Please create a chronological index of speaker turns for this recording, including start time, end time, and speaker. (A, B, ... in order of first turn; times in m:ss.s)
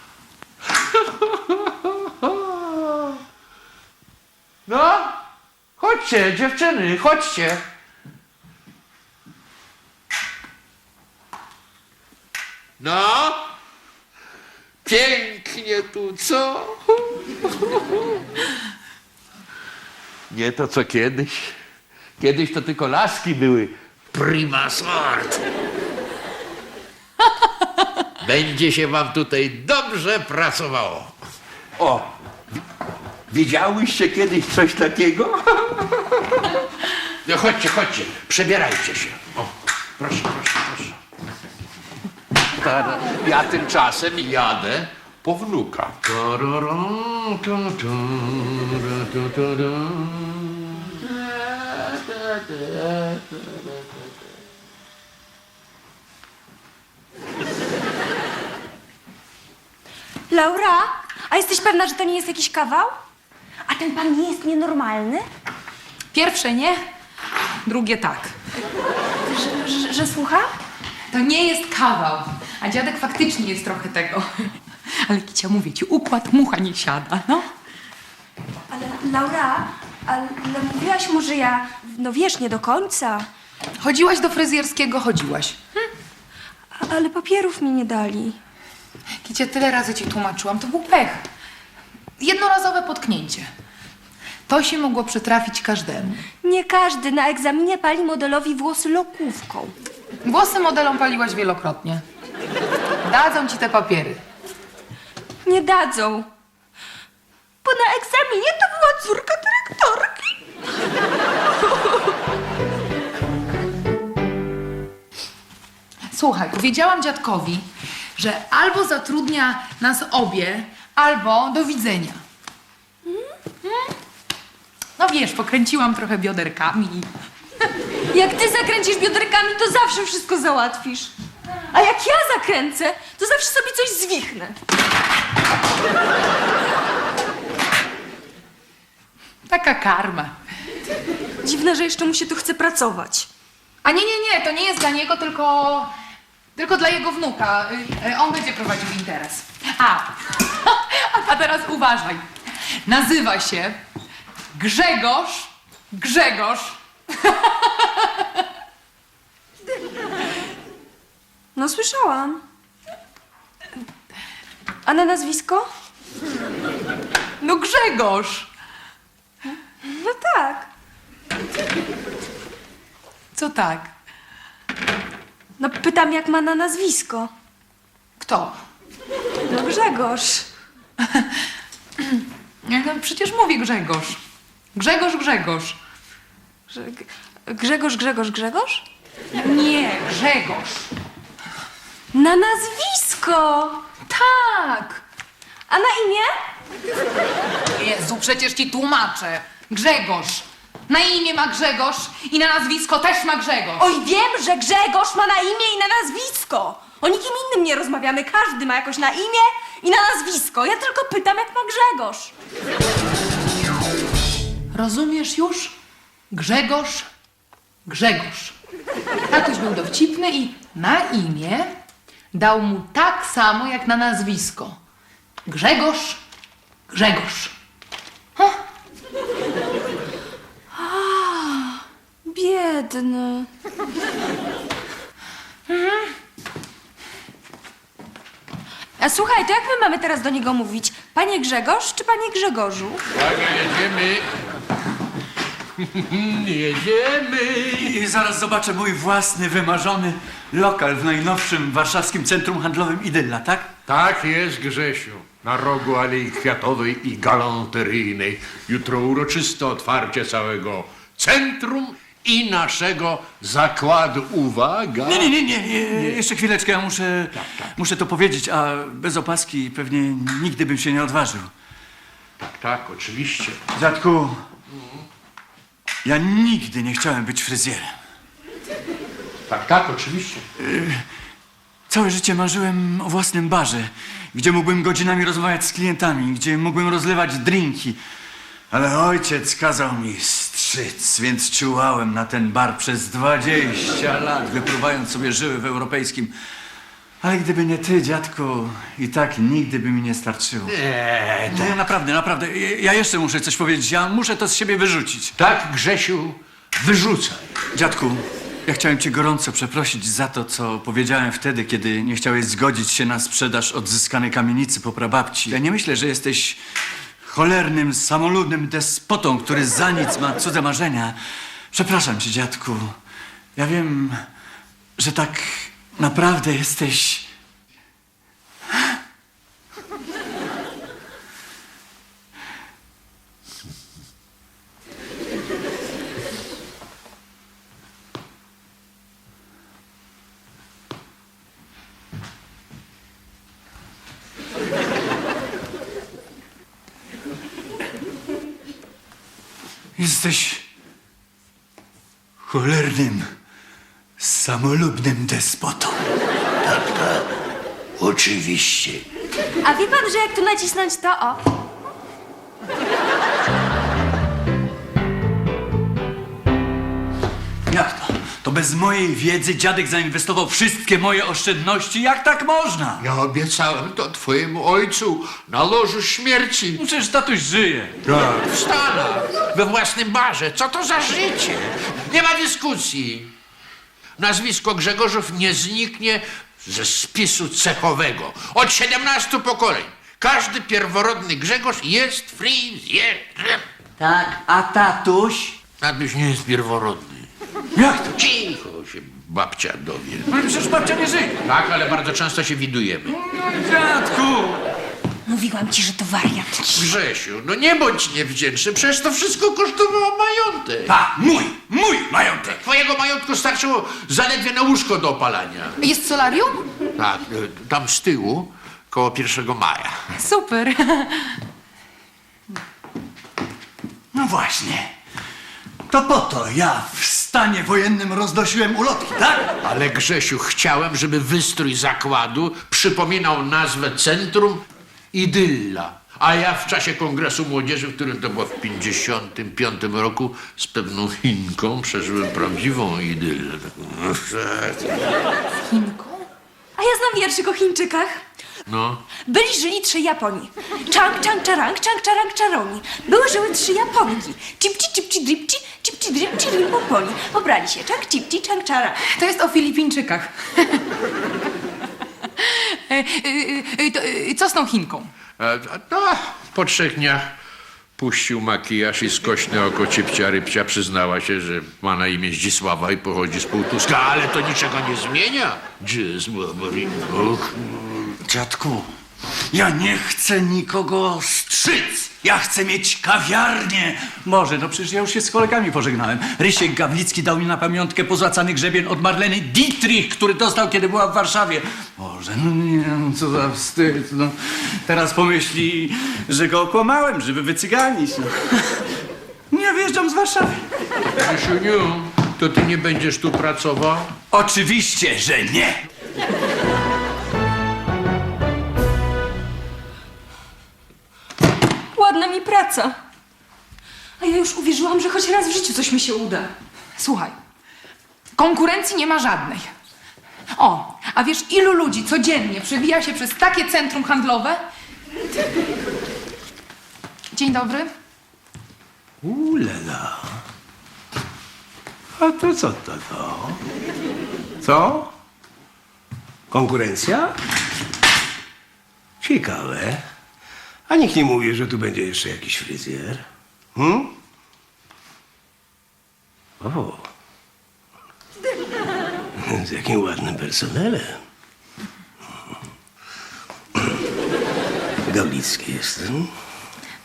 0:01.0-0:03.2 A
0:04.7-0:05.2 A
0:05.8-0:07.6 A
0:12.8-0:13.4 A
0:14.8-0:17.2 A
0:20.3-0:21.6 A
0:22.2-0:25.4 A
0:28.2-0:31.2 A
0:31.8-0:32.1 A
0:33.3-0:36.5 A
0:37.2-0:41.0 A
0:42.6-0:51.0 A
0:52.2-0:53.2 A
1:00.3-1:03.0 B
1:03.7-1:05.3 B
1:06.1-1:06.8 C
1:07.6-1:08.4 C
1:09.3-1:10.5 B
1:11.1-1:14.5 C
1:15.0-1:17.5 C
1:18.7-1:23.3 B
1:23.8-1:25.8 C
1:26.8-1:28.4 B
1:29.2-1:31.2 C
1:32.2-1:33.5 C
1:34.5-1:36.2 C
1:36.4-1:39.7 B
1:40.2-1:42.0 C
1:43.0-1:44.2 C
1:45.4-1:46.3 B
1:47.6-1:50.2 B
1:51.6-1:52.1 B
1:56.1-2:02.2 C
2:03.6-2:03.9 C
2:05.0-2:07.1 C
2:08.1-2:11.1 B
2:11.7-2:14.6 B
2:19.5-2:20.4 C
2:21.4-2:23.3 B
2:23.8-2:25.9 C
2:26.6-2:32.3 C
2:32.9-2:33.8 C
2:34.6-2:38.2 C
2:41.6-2:42.4 B
2:44.9-2:45.7 B
2:47.4-2:48.5 C
2:49.8-2:50.7 B
2:53.4-2:53.9 C
2:55.6-2:57.3 B
2:58.2-2:58.6 C
2:59.5-3:00.5 B
3:01.0-3:01.3 C
3:02.0-3:04.2 C
3:04.8-3:05.8 C
3:06.7-3:08.8 B
3:09.3-3:10.9 C
3:12.1-3:13.8 B
3:14.1-3:15.0 C
3:15.7-3:16.4 B
3:17.8-3:23.8 C
3:23.8-3:32.3 B
3:34.7-3:35.7 C
3:36.3-3:37.1 C
3:37.9-3:38.6 C
3:39.3-3:41.7 C
3:42.3-3:44.8 C
3:45.5-3:46.2 C
3:46.9-3:47.6 C
3:50.7-3:53.5 B
3:59.0-4:03.0 B
4:03.1-4:04.3 A
4:05.8-4:08.0 A
4:07.8-4:13.7 D
4:13.9-4:25.4 A
4:25.0-4:31.5 D
4:27.4-4:27.7 A
4:32.4-4:33.6 A
4:33.7-4:34.4 D
4:34.8-4:35.0 A
4:36.0-4:38.0 D
4:39.5-4:40.4 A
4:40.6-4:41.0 D
4:41.9-4:48.0 D
4:48.7-4:56.3 D
4:57.2-5:00.7 D
5:00.7-5:01.8 A
5:01.5-5:05.4 D
5:05.4-5:07.5 A
5:07.7-5:16.6 D
5:17.2-5:21.2 D
5:21.7-5:23.0 D
5:23.6-5:24.2 D
5:25.0-5:27.3 D
5:50.0-5:50.7 D
5:52.4-5:53.3 D
5:54.2-5:56.0 D
5:56.6-5:57.2 D
5:58.0-5:59.0 D
5:59.6-6:01.4 B
6:07.7-6:13.0 D
6:13.0-6:16.8 A
6:16.8-6:18.0 D
6:18.1-6:23.3 A
6:24.2-6:33.6 A
6:34.0-6:35.6 D
6:35.8-6:37.3 A
6:37.8-6:38.2 D
6:38.2-6:40.3 A
6:40.3-6:41.4 D
6:41.4-6:43.2 A
6:43.1-6:44.6 D
6:45.3-6:46.9 B
6:46.7-6:51.0 A
6:50.9-6:52.6 D
6:52.4-6:55.8 A
6:55.8-6:56.6 C
6:57.0-7:00.0 A
7:00.2-7:01.4 C
7:04.1-7:04.9 D
7:05.9-7:09.5 D
7:09.6-7:24.9 A
7:25.7-7:26.3 C
7:26.8-7:28.2 B
7:28.7-7:29.0 A
7:29.3-7:39.0 B
7:39.1-7:40.8 C
7:42.4-7:45.1 C
7:45.4-7:47.3 A
7:48.0-7:58.0 A
7:58.2-7:58.9 D
7:59.5-8:18.9 D
8:19.5-8:20.7 D
8:21.2-8:24.1 A
8:24.3-8:25.9 D
8:32.0-8:33.0 B
8:34.2-8:36.5 B
8:37.0-8:37.4 C
8:38.4-8:39.7 C
8:40.5-8:44.6 C
8:47.3-8:47.9 C
8:49.2-8:50.4 E
8:52.2-8:53.6 E
8:54.6-8:55.1 E
8:56.5-8:57.4 E
8:59.2-9:00.0 E
9:00.9-9:03.2 E
9:03.8-9:04.1 E
9:06.6-9:07.1 E
9:09.4-9:11.2 E
9:15.1-9:16.3 E